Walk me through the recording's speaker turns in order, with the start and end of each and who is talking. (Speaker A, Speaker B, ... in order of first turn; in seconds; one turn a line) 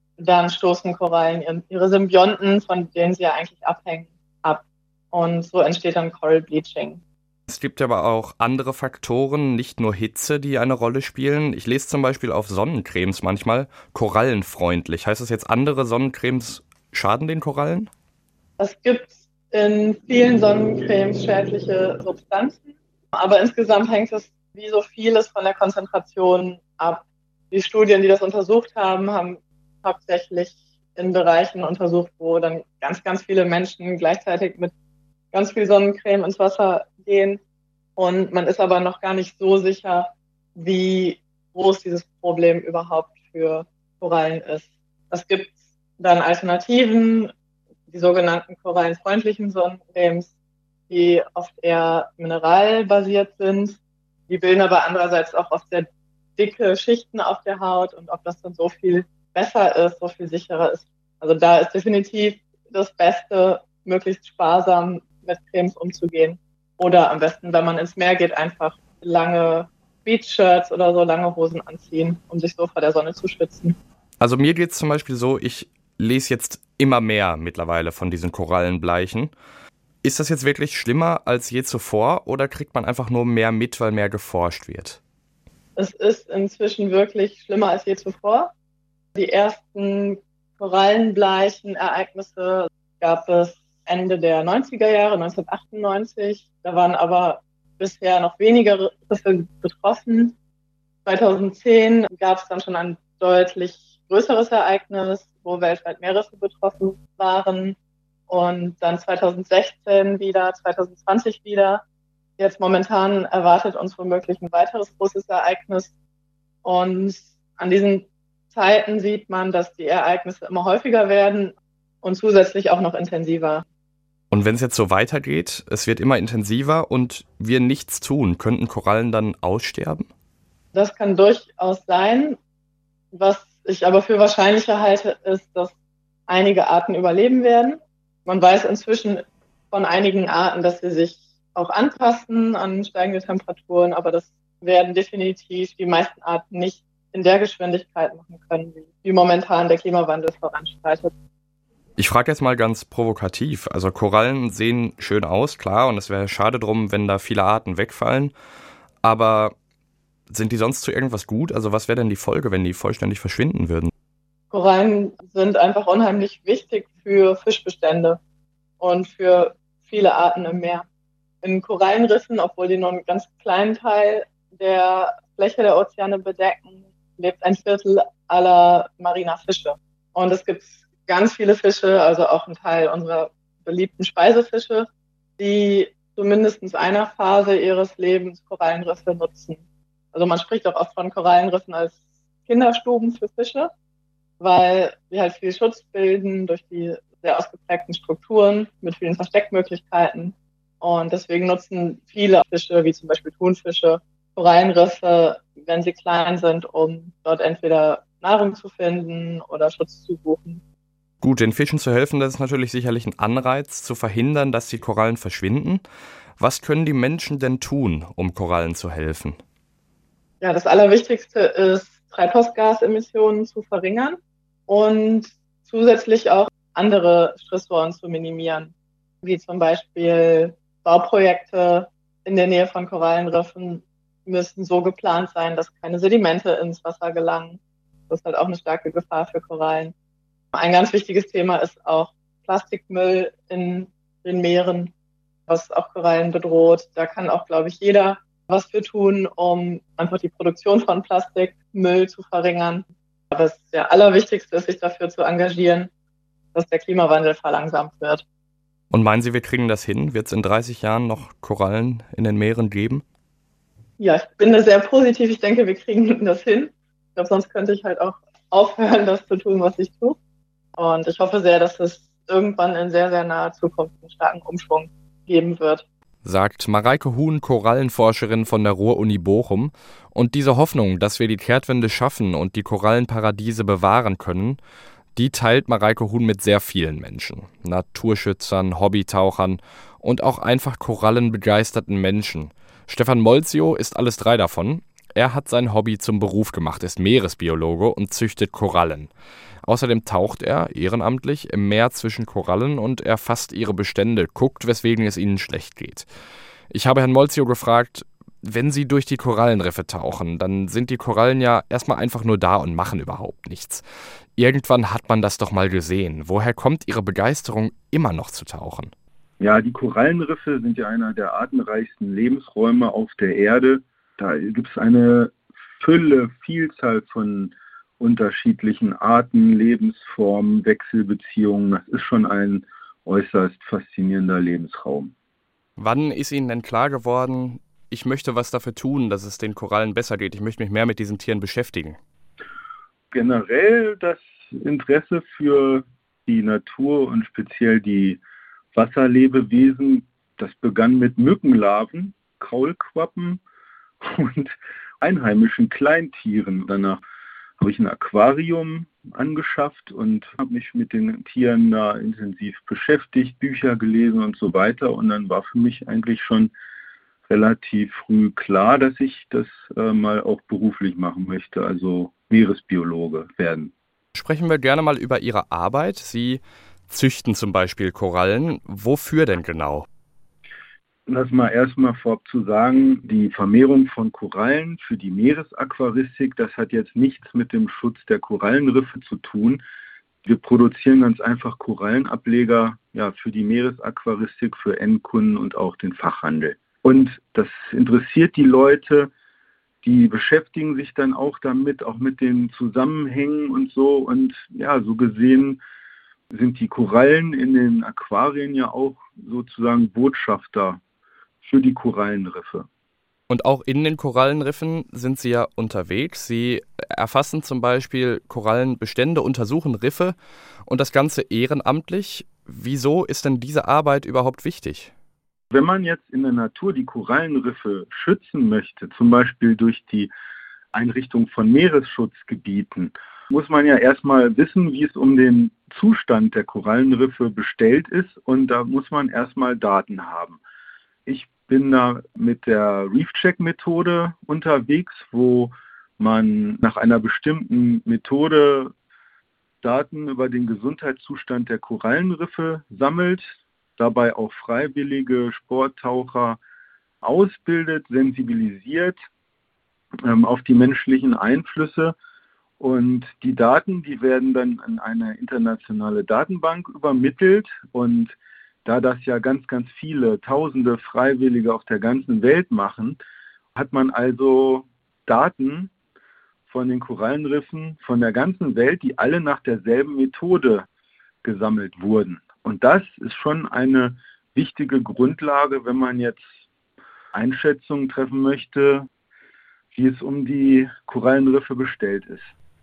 Speaker A: 0.2-7.0
Speaker B: 7.5-17.9
Speaker A: 18.6-34.7
Speaker A: 35.3-37.4
Speaker A: 38.0-47.3
Speaker A: 47.9-50.3
Speaker A: 50.9-53.8
Speaker A: 54.3-73.8
Speaker B: 74.2-79.3
Speaker B: 80.0-85.0
Speaker A: 85.8-88.5
Speaker A: 89.2-100.3
Speaker A: 101.0-107.8
Speaker A: 108.3-111.8
Speaker A: 112.4-115.9
Speaker A: 116.6-123.6
Speaker B: 124.3-130.1
Speaker A: 130.7-132.4
Speaker A: 133.1-135.7
Speaker A: 136.3-151.1
Speaker B: 152.0-158.3
Speaker B: 159.0-159.6
Speaker B: 160.3-163.9
Speaker A: 164.5-168.2
Speaker A: 168.8-170.9
Speaker A: 171.4-184.9
Speaker A: 185.4-189.6
Speaker A: 190.1-193.7
Speaker A: 194.4-210.6
Speaker B: 211.2-215.8
Speaker B: 216.4-219.4
Speaker A: 220.4-228.7
Speaker A: 229.2-239.9
Speaker A: 240.5-244.9
Speaker A: 245.5-255.9
Speaker A: 256.5-258.2
Speaker B: 258.9-263.0
Speaker A: 264.0-270.2
Speaker A: 270.8-275.8
Speaker B: 276.2-284.6
Speaker B: 285.2-299.1
Speaker B: 299.6-306.1
Speaker B: 306.7-313.8
Speaker B: 314.4-318.9
Speaker C: 319.4-335.1
Speaker B: 335.8-342.0
Speaker C: 343.1-348.2
Speaker C: 348.7-353.4
Speaker C: 354.0-357.0
Speaker C: 357.6-366.5
Speaker C: 367.3-373.7
Speaker B: 374.1-379.9
Speaker C: 381.1-389.6
Speaker C: 390.3-399.1
Speaker C: 399.8-405.6
Speaker C: 406.3-410.8
Speaker C: 411.4-412.7
Speaker B: 413.3-424.9
Speaker C: 425.5-430.1
Speaker C: 430.7-440.4
Speaker C: 441.1-448.7
Speaker C: 449.6-453.2
Speaker C: 453.8-456.4
Speaker C: 457.0-458.9
Speaker C: 460.0-461.9
Speaker C: 462.6-468.1
Speaker C: 468.6-473.0
Speaker C: 473.6-475.7
Speaker C: 476.5-480.7
Speaker C: 481.2-486.2
Speaker C: 487.1-488.9
Speaker C: 489.7-492.3